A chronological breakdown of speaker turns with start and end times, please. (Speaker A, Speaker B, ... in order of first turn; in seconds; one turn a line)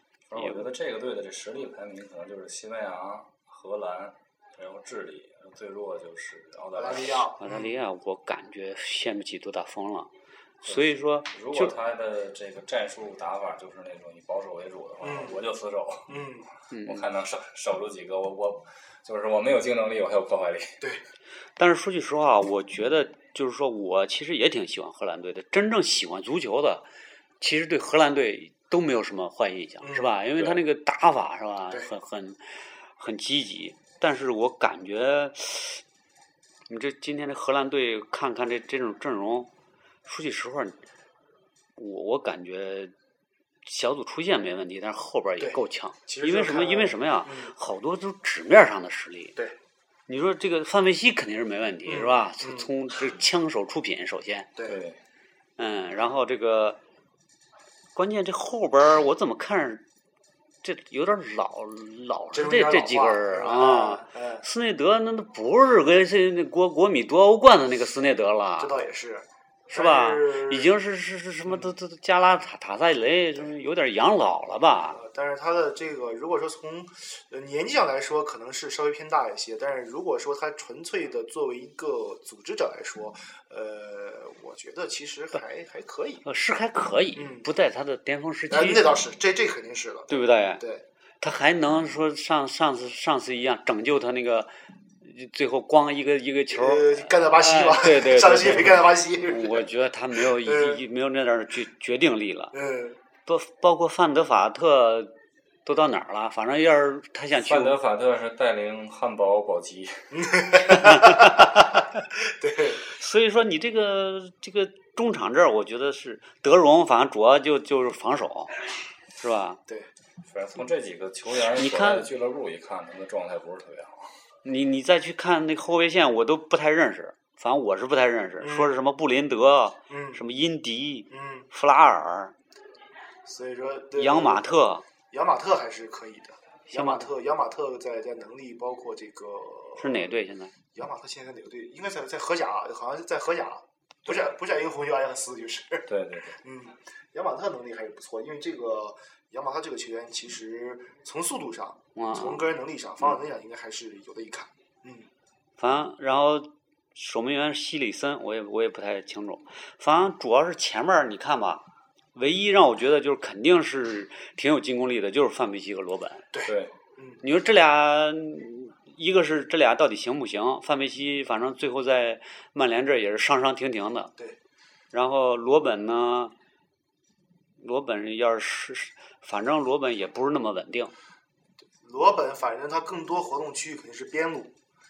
Speaker A: 0.3-7.3
Speaker B: 0.4-0.6
Speaker C: 6.8-7.7
Speaker B: 7.4-10.1
Speaker B: 10.6-11.7
Speaker A: 10.7-16.2
Speaker C: 15.0-15.4
Speaker C: 16.1-16.5
Speaker B: 16.7-17.1
Speaker A: 16.8-20.8
Speaker B: 21.6-26.9
Speaker B: 27.4-35.8
Speaker C: 29.8-30.1
Speaker B: 36.7-39.5
Speaker B: 40.0-40.8
Speaker B: 41.8-42.9
Speaker B: 43.6-49.4
Speaker C: 45.4-47.5
Speaker B: 50.1-54.5
Speaker C: 51.9-52.7
Speaker A: 54.6-55.0
Speaker B: 55.6-56.8
Speaker B: 57.9-59.8
Speaker B: 60.6-68.7
Speaker C: 62.3-64.4
Speaker C: 68.6-70.7
Speaker B: 69.7-75.0
Speaker C: 74.9-86.2
Speaker B: 86.2-89.0
Speaker C: 87.2-87.5
Speaker C: 88.5-90.8
Speaker B: 90.1-90.6
Speaker B: 91.2-102.5
Speaker C: 96.5-100.8
Speaker C: 102.5-103.0
Speaker B: 103.2-105.1
Speaker B: 105.6-107.8
Speaker A: 107.4-110.1
Speaker C: 110.1-112.8
Speaker B: 110.7-111.8
Speaker B: 112.8-118.6
Speaker B: 119.2-119.6
Speaker A: 120.2-124.2
Speaker B: 121.4-122.1
Speaker B: 124.4-132.3
Speaker C: 128.4-128.7
Speaker C: 129.9-130.2
Speaker C: 131.1-131.5
Speaker C: 133.2-134.5
Speaker B: 133.9-134.8
Speaker C: 135.1-140.1
Speaker B: 136.7-137.1
Speaker B: 139.8-140.5
Speaker C: 140.7-145.9
Speaker A: 145.9-146.4
Speaker C: 146.4-155.1
Speaker B: 151.9-152.4
Speaker B: 155.6-166.3
Speaker C: 166.3-167.2
Speaker A: 166.4-166.7
Speaker B: 167.2-174.1
Speaker B: 174.9-176.3
Speaker B: 177.6-180.9
Speaker C: 181.8-184.6